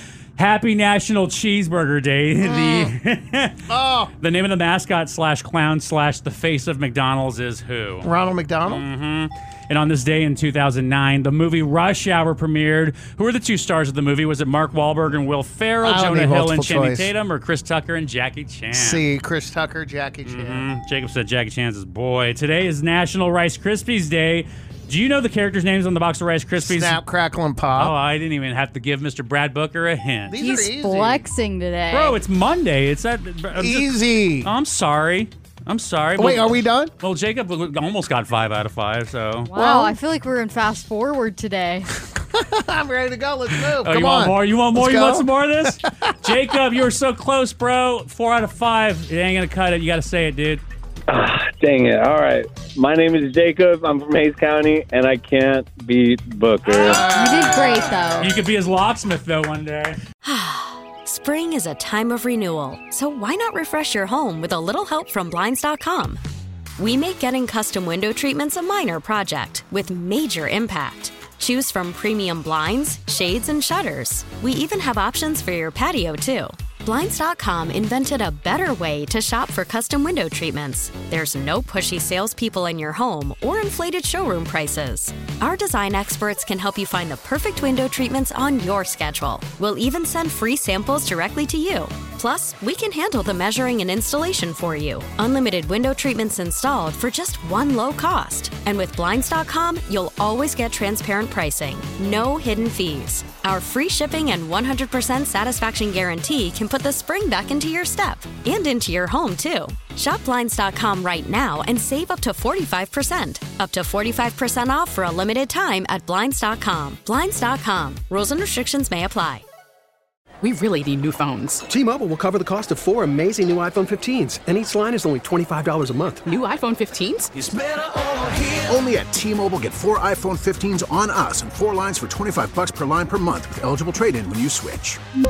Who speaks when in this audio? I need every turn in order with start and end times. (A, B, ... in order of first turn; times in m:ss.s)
0:00.4-0:03.6 A
0:02.4-0:02.9 B
0:03.7-0:04.1 C
0:04.2-0:08.1 A
0:08.0-0:08.8 C
0:08.6-0:19.0 A
0:15.8-0:17.1 C
0:18.7-0:20.7 C
0:20.2-0:27.0 A
0:26.6-0:28.0 C
0:27.8-0:30.4 A
0:30.3-0:31.3 C
0:30.4-0:32.2 B
0:31.9-0:39.5 A
0:33.6-0:34.5 C
0:36.2-0:36.9 C
0:39.5-0:41.9 B
0:39.6-0:40.0 C
0:42.2-0:45.7 C
0:43.6-0:50.6 A
0:51.1-0:57.1 D
0:57.1-0:58.3 B
0:58.2-1:00.0 A
1:00.2-1:06.2 E
1:06.8-1:59.4 E
2:00.4-2:01.5 F
2:01.7-2:06.2 G
2:06.3-2:07.3 F
2:08.5-2:15.0 H